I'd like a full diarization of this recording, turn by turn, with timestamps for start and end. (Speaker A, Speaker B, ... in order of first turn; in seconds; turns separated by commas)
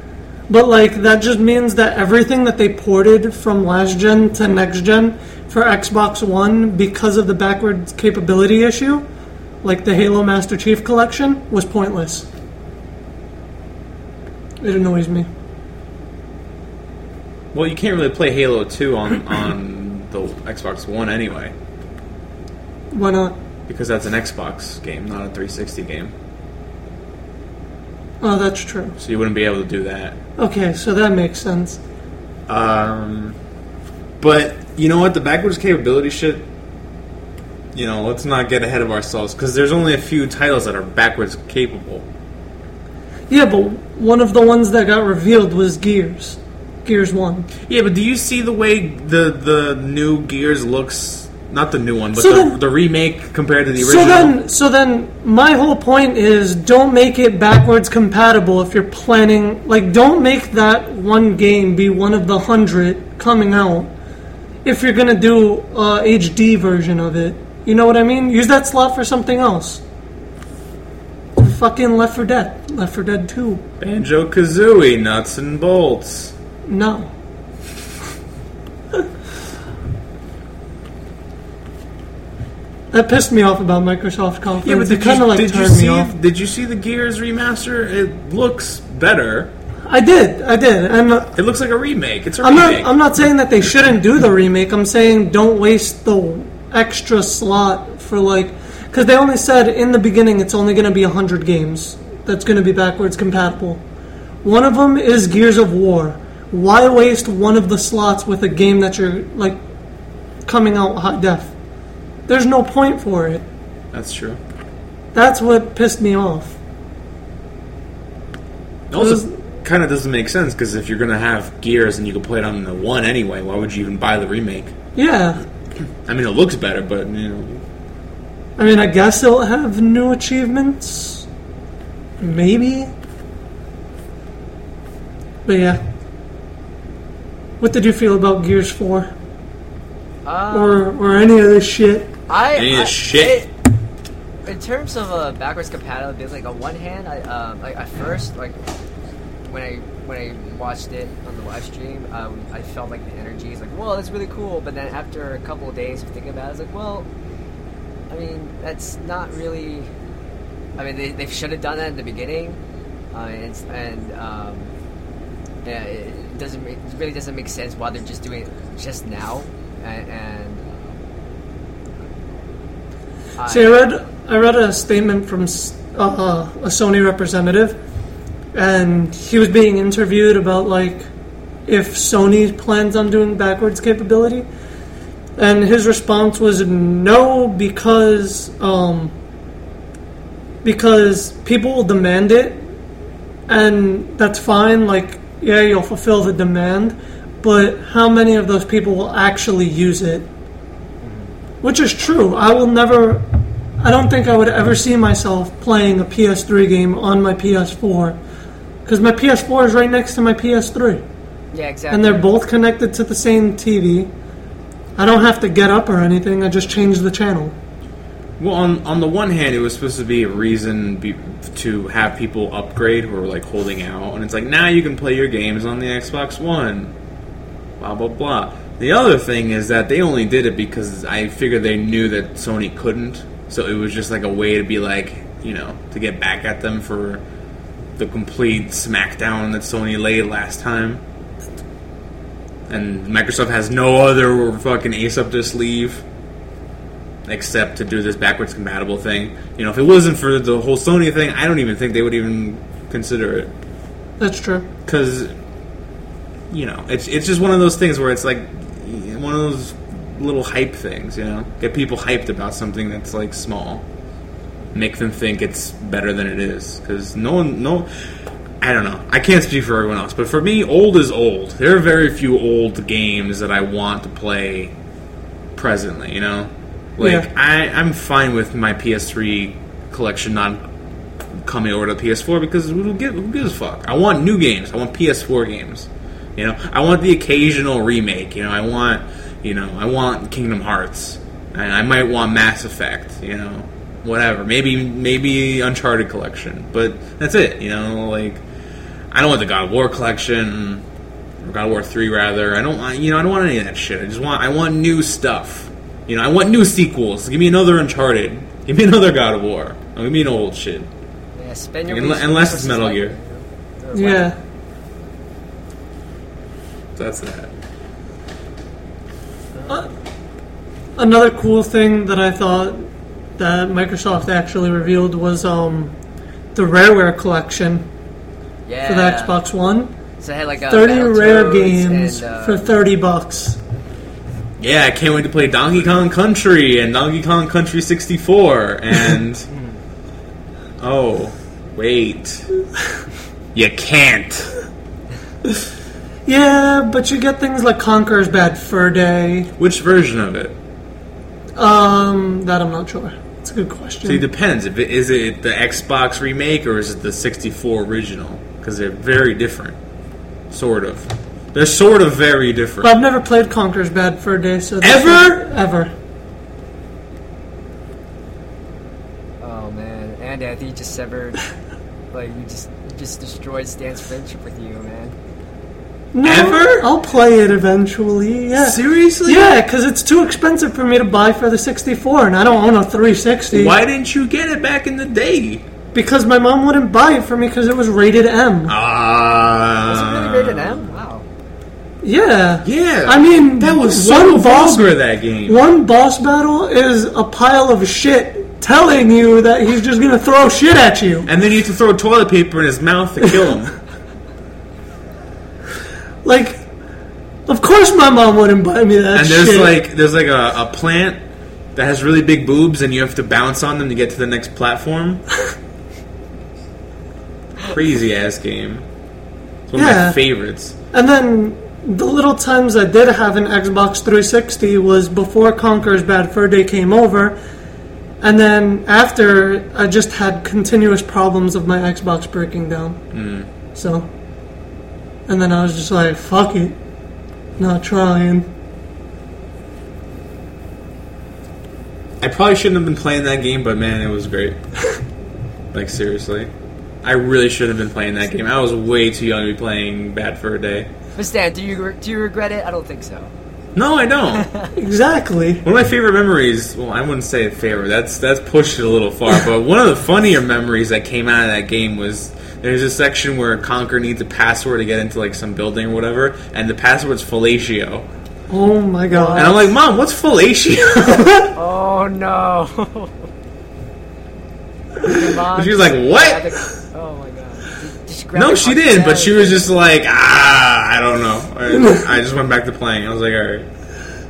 Speaker A: 0.5-9.0, Speaker A: 9.6-12.3, Speaker A: 14.6-15.3, Speaker B: 17.5-21.5, Speaker A: 22.9-23.4, Speaker B: 23.7-26.1, Speaker A: 28.2-29.0, Speaker B: 29.0-30.2, Speaker A: 30.4-31.8, Speaker B: 32.5-33.4, Speaker B: 34.2-36.5, Speaker B: 37.7-42.0, Speaker A: 43.3-47.5, Speaker B: 47.6-54.4, Speaker A: 52.1-52.6, Speaker A: 53.8-63.9, Speaker A: 64.6-69.8, Speaker A: 71.4-73.6, Speaker B: 73.8-76.3, Speaker A: 76.7-77.1, Speaker A: 82.9-86.1, Speaker B: 84.6-89.5, Speaker A: 89.9-91.3, Speaker B: 91.3-92.9, Speaker A: 92.4-103.8, Speaker A: 104.4-109.6, Speaker A: 110.5-111.5, Speaker A: 112.3-113.4, Speaker B: 113.9-114.4, Speaker A: 115.1-116.6, Speaker B: 118.9-124.7, Speaker A: 118.9-119.4, Speaker A: 125.0-125.4, Speaker B: 126.0-127.6, Speaker A: 128.6-131.2, Speaker A: 132.2-132.9, Speaker A: 135.4-135.8, Speaker A: 137.6-139.1, Speaker C: 140.2-140.9, Speaker A: 140.5-142.1, Speaker C: 142.3-143.5, Speaker B: 142.5-143.4, Speaker C: 144.4-148.6, Speaker C: 149.4-157.1, Speaker C: 158.1-159.9, Speaker C: 160.8-162.6, Speaker C: 163.1-164.7, Speaker C: 165.6-171.0, Speaker C: 173.4-173.8, Speaker A: 173.4-177.8, Speaker A: 178.5-181.1, Speaker A: 181.7-184.4, Speaker A: 185.4-189.1, Speaker A: 190.6-192.6, Speaker A: 193.5-200.3, Speaker C: 201.0-201.3, Speaker A: 201.6-203.2, Speaker A: 203.8-208.2, Speaker A: 208.8-211.0, Speaker C: 211.5-212.2, Speaker A: 211.9-214.1, Speaker A: 214.9-217.5, Speaker B: 218.4-226.9, Speaker B: 227.8-237.2, Speaker B: 238.0-241.0, Speaker B: 242.7-246.0, Speaker B: 247.3-253.5, Speaker A: 254.2-254.7, Speaker B: 254.8-255.3, Speaker B: 256.5-263.8, Speaker B: 264.7-267.9, Speaker B: 268.6-274.7, Speaker B: 275.5-280.6, Speaker A: 277.0-277.2, Speaker B: 281.4-298.4, Speaker B: 299.1-300.8, Speaker B: 301.4-310.9, Speaker C: 311.4-314.3, Speaker B: 311.9-313.1, Speaker A: 313.9-314.4, Speaker B: 316.9-317.5, Speaker C: 319.5-319.9, Speaker A: 320.9-325.9, Speaker A: 326.5-327.9, Speaker C: 328.6-329.4, Speaker A: 328.9-329.9, Speaker C: 330.2-332.7, Speaker A: 330.7-333.6, Speaker B: 334.6-339.5, Speaker C: 339.5-339.8, Speaker B: 340.8-342.5, Speaker B: 343.5-344.5, Speaker A: 346.2-349.5, Speaker B: 349.6-350.6, Speaker A: 351.6-354.2, Speaker B: 354.0-359.8, Speaker B: 360.5-362.9, Speaker A: 362.8-365.9, Speaker B: 364.8-365.4, Speaker C: 369.4-371.4, Speaker C: 372.1-375.1, Speaker A: 376.1-383.7, Speaker B: 376.2-376.8, Speaker B: 378.6-379.6, Speaker B: 383.5-385.6, Speaker A: 385.9-388.7, Speaker B: 388.7-390.9, Speaker C: 389.8-391.2, Speaker A: 392.0-394.9, Speaker B: 392.6-395.6, Speaker A: 395.4-401.3, Speaker B: 401.2-403.8, Speaker A: 406.2-406.6, Speaker A: 407.5-409.7, Speaker B: 409.1-411.2, Speaker B: 411.7-415.2, Speaker B: 417.6-418.8, Speaker B: 419.7-420.7, Speaker A: 419.7-420.2, Speaker A: 420.9-427.4, Speaker A: 428.2-433.0, Speaker B: 433.1-433.5, Speaker A: 433.7-434.1, Speaker A: 435.3-436.8, Speaker A: 437.6-438.5, Speaker B: 442.2-444.6, Speaker B: 445.7-446.5, Speaker B: 447.0-450.9, Speaker C: 451.1-453.3, Speaker B: 453.7-454.5, Speaker C: 454.3-454.7, Speaker A: 454.7-455.6, Speaker B: 455.6-468.1, Speaker A: 468.5-469.5, Speaker C: 469.1-469.5, Speaker B: 469.3-471.5, Speaker A: 471.1-471.5, Speaker C: 471.4-473.3, Speaker C: 475.0-479.7, Speaker B: 475.0-476.4, Speaker B: 478.3-483.7